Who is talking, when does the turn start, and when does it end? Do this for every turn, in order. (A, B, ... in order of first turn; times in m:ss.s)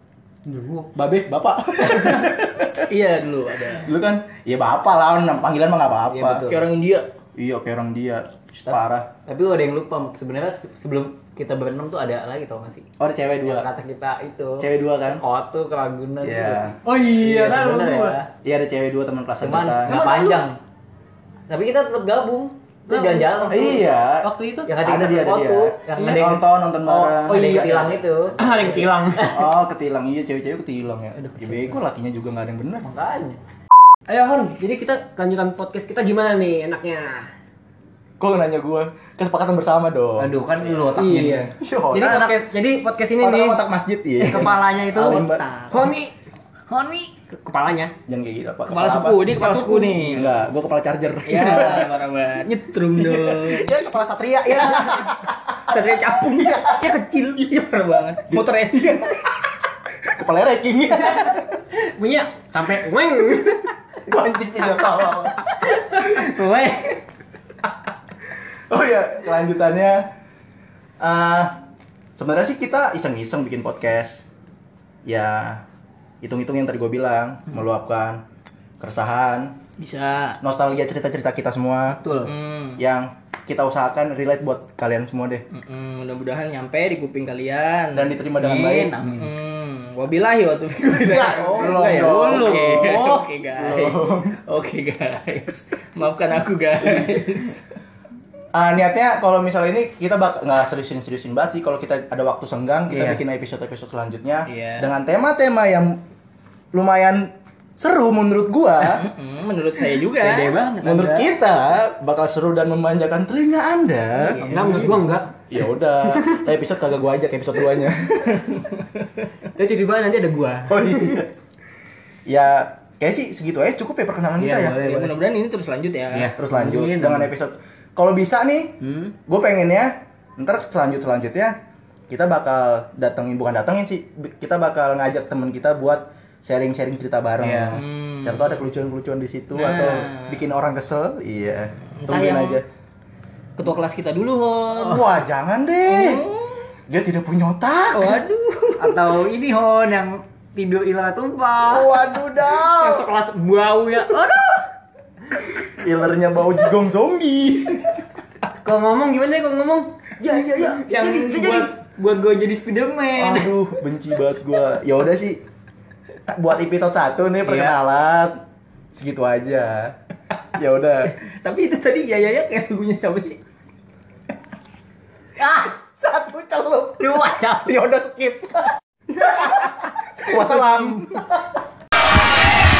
0:00.4-0:00.9 A
0:00.9-0:02.8 B
0:02.9-0:03.9 C
0:03.8-0:06.4 B
0:06.1-0:06.6 D
0:06.4-0:07.1 C
0:07.4-0:09.1 B
0:08.7-0:12.9 D
0:13.0-0:13.7 B
0:13.4-0:18.3 D
0:14.6-0:15.2 B
0:16.2-0:17.7 B
0:16.8-0:18.2 A
0:18.3-0:20.0 B
0:19.4-0:20.6 D
0:19.9-0:20.4 A
0:19.9-0:20.3 C
0:21.5-0:23.9 D
0:22.9-0:24.7 A
0:23.5-0:24.3 B
0:24.6-0:29.3 D
0:24.8-0:27.8 B
0:27.3-0:29.4 A
0:29.2-0:32.8 B
0:31.2-0:31.8 D
0:32.8-0:33.4 D
0:34.1-0:37.3 A
0:38.2-0:40.8 B
0:40.2-0:42.3 D
0:40.9-0:43.6 A
0:41.5-0:42.3 B
0:43.2-0:45.4 B
0:44.2-0:46.1 A
0:44.3-0:45.9 C
0:46.7-0:47.1 D
0:47.3-0:47.9 A
0:48.1-0:49.4 B
0:48.7-0:50.4 C
0:49.4-0:49.8 D
0:49.4-0:49.9 A
0:50.0-0:51.9 B
0:51.3-0:51.8 D
0:51.3-0:53.7 C
0:52.9-0:56.9 B
0:54.6-0:54.9 C
0:55.7-0:59.1 C
0:58.3-0:59.3 B
1:00.0-1:01.6 B
1:01.7-1:03.7 A
1:04.0-1:05.5 B
1:06.1-1:06.8 C
1:06.2-1:06.6 D
1:08.7-1:10.1 B
1:11.0-1:11.6 B
1:12.2-1:14.2 B
1:15.0-1:15.6 B
1:16.2-1:18.2 B
1:18.8-1:19.6 B
1:19.8-1:20.4 C
1:20.4-1:22.1 B
1:22.0-1:22.3 D
1:22.2-1:22.8 C
1:22.8-1:25.4 B
1:25.5-1:28.1 C
1:27.9-1:29.2 B
1:28.4-1:29.3 D
1:29.1-1:37.6 C
1:30.9-1:34.4 B
1:32.2-1:33.2 D
1:38.5-1:46.0 B
1:42.9-1:43.2 D
1:44.5-1:44.9 C
1:46.7-1:49.1 B
1:48.9-1:50.6 C
1:50.1-1:51.3 D
1:50.8-1:54.4 B
1:54.2-1:54.5 C
1:54.3-1:55.0 D
1:54.5-1:55.3 A
1:55.5-1:58.6 B
1:56.1-1:56.4 A
1:59.5-2:01.2 A
2:00.7-2:01.3 B
2:02.2-2:04.8 B
2:04.4-2:05.2 D
2:04.7-2:06.3 C
2:06.1-2:07.3 D
2:06.3-2:11.6 B
2:08.8-2:09.1 D
2:12.1-2:22.6 B
2:17.4-2:17.8 D
2:17.8-2:18.5 C
2:19.5-2:20.4 C
2:22.0-2:22.6 C
2:23.6-2:25.0 C
2:24.7-2:26.2 B
2:25.8-2:26.7 C
2:26.9-2:28.2 B
2:27.9-2:29.1 C
2:28.8-2:34.6 D
2:31.7-2:33.0 B
2:35.6-2:38.0 B
2:38.6-2:41.7 A
2:40.2-2:42.4 C
2:40.9-2:41.6 B
2:41.5-2:43.6 D
2:43.1-2:45.4 B
2:46.3-2:48.4 B
2:47.4-2:47.7 D
2:48.9-2:49.9 B
2:50.5-2:51.2 B
2:51.2-2:53.4 C
2:55.4-2:55.7 D
2:55.8-3:01.4 B
2:57.0-2:57.7 D